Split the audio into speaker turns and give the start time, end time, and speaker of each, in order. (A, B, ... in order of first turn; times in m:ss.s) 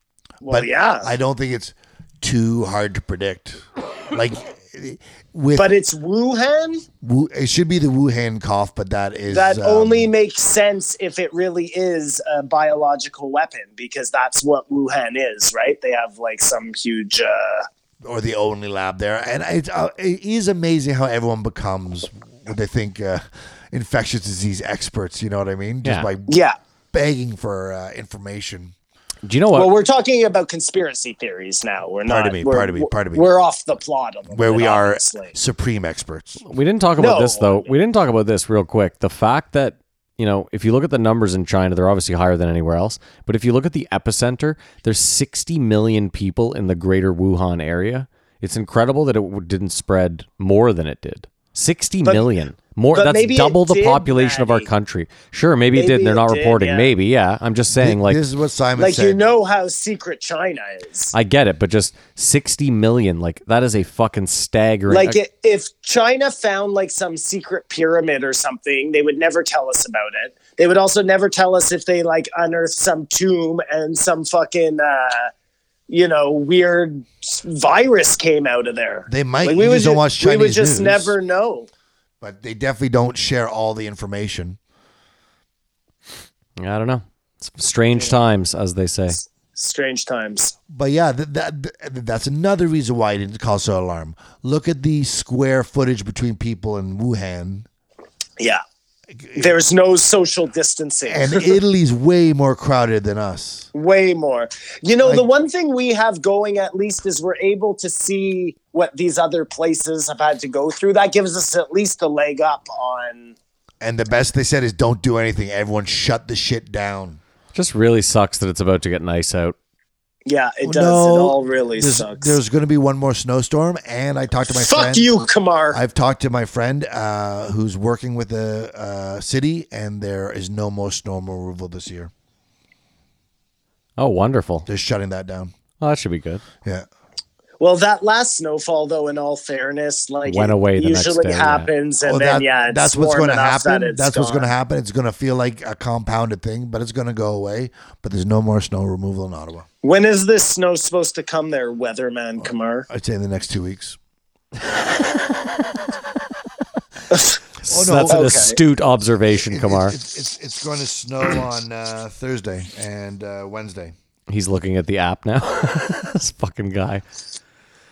0:00.4-0:01.1 A
0:00.5-0:05.7 B
0:05.6-0:06.8 A
0:07.0-0:10.1 B
0:09.3-0:17.7 A
0:18.0-0:26.4 B
0:26.3-0:26.6 A
0:26.9-0:28.7 B
0:29.2-0:29.7 C
0:29.5-0:35.4 A
0:32.1-0:33.3 B
0:34.3-0:36.4 B
0:36.5-0:58.2 C
0:37.0-0:37.7 A
0:52.0-0:52.3 A
0:52.9-0:54.7 A
0:55.7-0:56.9 A
0:57.7-0:59.2 B
0:58.8-1:01.1 A
1:01.1-1:05.2 C
1:04.9-1:15.3 A
1:15.9-1:21.7 A
1:19.1-1:21.2 B
1:22.2-1:24.6 B
1:26.6-1:29.2 C
1:29.5-1:30.6 A
1:30.7-1:37.7 B
1:39.2-1:39.6 B
1:39.4-1:41.6 A
1:41.1-1:43.7 B
1:43.7-1:53.4 A
1:53.8-1:57.2 B
1:57.5-1:59.6 C
2:00.3-2:02.4 A
2:00.6-2:05.1 B
2:04.5-2:05.8 A
2:05.7-2:12.1 B
2:14.0-2:14.7 C
2:14.6-2:15.5 B
2:15.8-2:16.4 C
2:17.6-2:24.5 A
2:20.3-2:21.7 C
2:22.0-2:29.6 B
2:29.8-2:32.9 A
2:32.9-2:34.0 B
2:37.6-2:40.0 C
2:37.7-2:38.3 B
2:38.1-2:38.6 A
2:39.4-2:43.9 B
2:44.3-2:47.0 C